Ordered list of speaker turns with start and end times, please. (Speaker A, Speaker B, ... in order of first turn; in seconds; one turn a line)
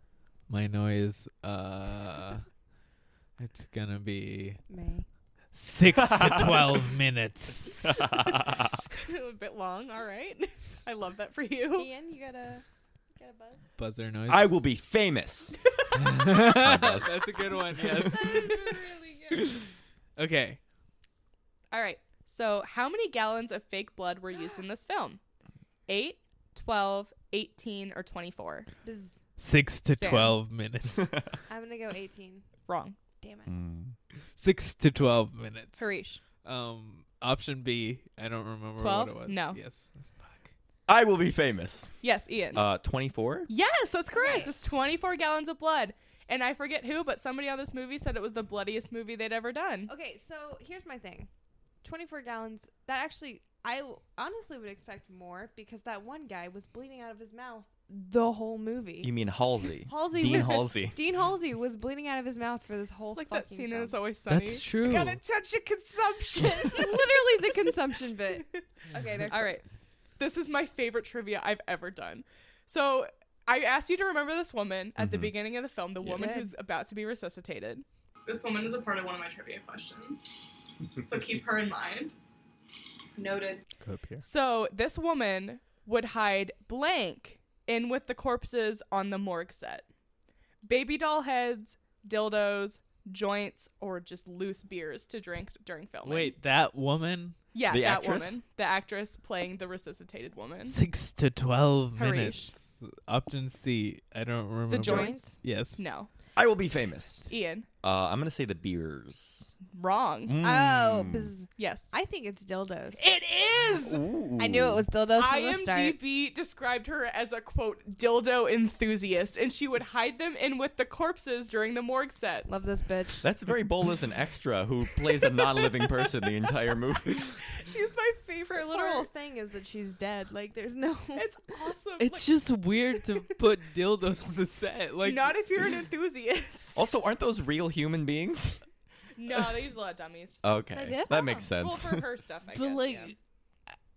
Speaker A: 0.5-2.4
Speaker A: 3.4-4.6
Speaker B: 4.7-5.1
Speaker A: 5.5-7.7
Speaker C: 6.0-6.6
Speaker C: 7.8-8.8
Speaker D: 9.1-11.9
Speaker B: 11.8-12.7
Speaker B: 13.2-13.6
Speaker A: 13.8-14.5
Speaker C: 14.3-15.6
Speaker A: 16.0-18.6
Speaker C: 16.3-17.3
Speaker D: 17.9-18.9
Speaker B: 18.1-19.4
Speaker A: 19.3-19.7
Speaker A: 20.2-20.6
Speaker D: 21.7-25.2
Speaker D: 25.9-28.7
Speaker B: 28.8-29.2
Speaker A: 29.4-31.2
Speaker B: 29.9-30.2
Speaker D: 30.0-30.3
Speaker B: 31.5-32.4
Speaker D: 32.7-33.0
Speaker B: 33.2-33.5
Speaker C: 33.5-34.0
Speaker A: 34.4-40.5
Speaker D: 35.8-36.2
Speaker D: 38.8-39.6
Speaker C: 40.9-41.9
Speaker D: 42.0-42.7
Speaker C: 42.5-43.5
Speaker D: 43.5-49.9
Speaker B: 44.1-44.5
Speaker B: 49.9-51.3
Speaker B: 51.8-59.1
Speaker C: 59.0-61.0
Speaker B: 59.9-64.0
Speaker D: 63.1-68.6
Speaker A: 64.3-65.2
Speaker B: 66.4-69.6
Speaker D: 69.3-69.7
Speaker D: 70.2-77.8
Speaker C: 75.0-75.3
Speaker C: 76.0-76.3
Speaker B: 76.2-76.5
Speaker E: 78.3-80.2
Speaker E: 81.0-82.2
Speaker E: 83.2-83.6
Speaker A: 83.8-84.2
Speaker D: 84.2-89.9
Speaker D: 90.6-96.4
Speaker A: 96.0-97.4
Speaker D: 97.5-100.8
Speaker C: 97.7-98.4
Speaker A: 100.7-105.8
Speaker D: 102.0-102.5
Speaker D: 104.7-106.1
Speaker B: 104.8-105.4
Speaker C: 106.4-107.3
Speaker D: 107.3-107.7
Speaker C: 107.8-109.5
Speaker D: 109.7-110.4
Speaker C: 110.2-111.3
Speaker B: 110.4-113.0
Speaker D: 111.6-111.9
Speaker D: 113.0-114.0
Speaker C: 113.6-114.9
Speaker B: 114.4-116.0
Speaker D: 115.2-122.6
Speaker B: 122.5-123.3
Speaker C: 123.2-127.4
Speaker D: 125.2-126.1
Speaker D: 127.4-129.1
Speaker B: 128.5-131.3
Speaker D: 131.2-132.4
Speaker A: 132.0-135.4
Speaker D: 135.0-136.9
Speaker C: 136.8-138.6
Speaker D: 139.2-140.4
Speaker C: 140.4-142.1
Speaker B: 140.8-141.2
Speaker D: 141.1-143.1
Speaker A: 142.5-143.2